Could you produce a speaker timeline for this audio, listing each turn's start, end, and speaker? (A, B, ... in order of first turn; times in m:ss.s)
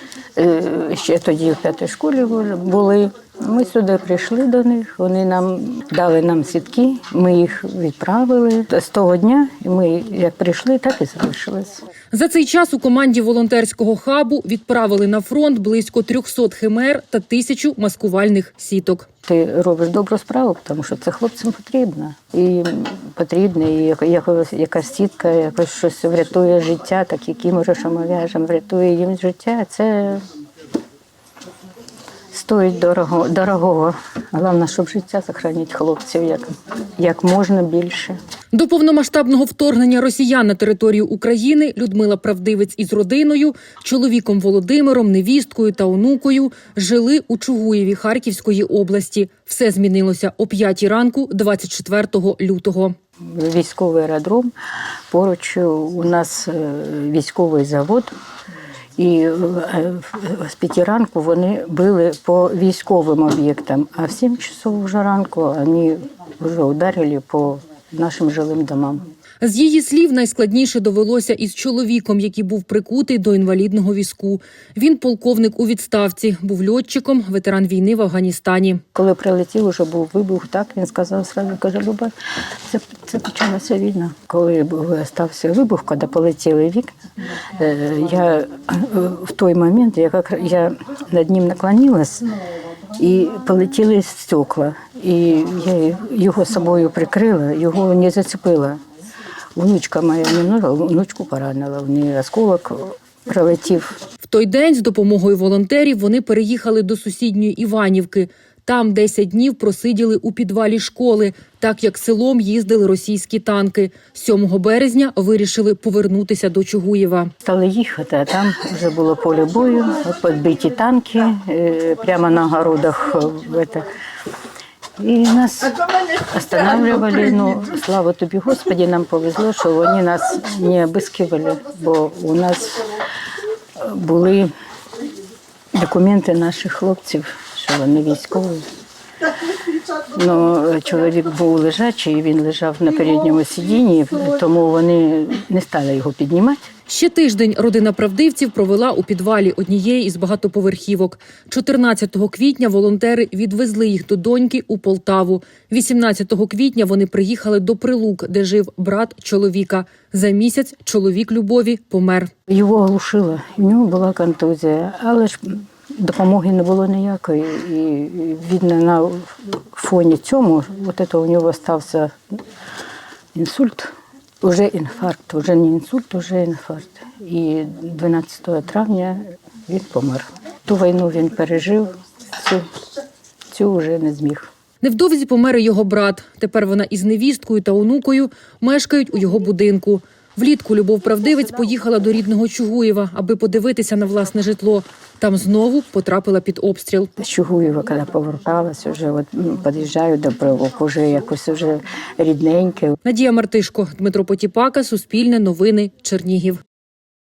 0:00.4-0:11.8 A
0:12.1-0:19.0 B
0:19.2-0:30.2 A
0:32.3-0:38.2 A
0:38.5-0:52.9 B
0:53.3-0:54.5 A
0:55.1-0:58.1 A
0:59.0-1:09.0 A
1:09.4-1:18.8 B
1:18.9-1:22.1 A
1:22.7-1:26.9 A
1:27.6-1:32.3 A
1:33.0-1:38.8 A
1:39.6-1:44.0 A
1:44.2-1:57.3 B
1:57.4-2:03.8 A
2:05.0-2:12.9 A
2:13.8-2:14.5 A
2:15.7-2:18.6 A
2:20.1-2:26.6 A
2:26.9-2:42.3 B
2:42.5-2:52.1 A
2:53.3-3:02.6 A
3:03.5-3:04.5 A
3:04.8-3:17.1 B
3:17.2-3:23.0 A
3:23.0-3:26.6 B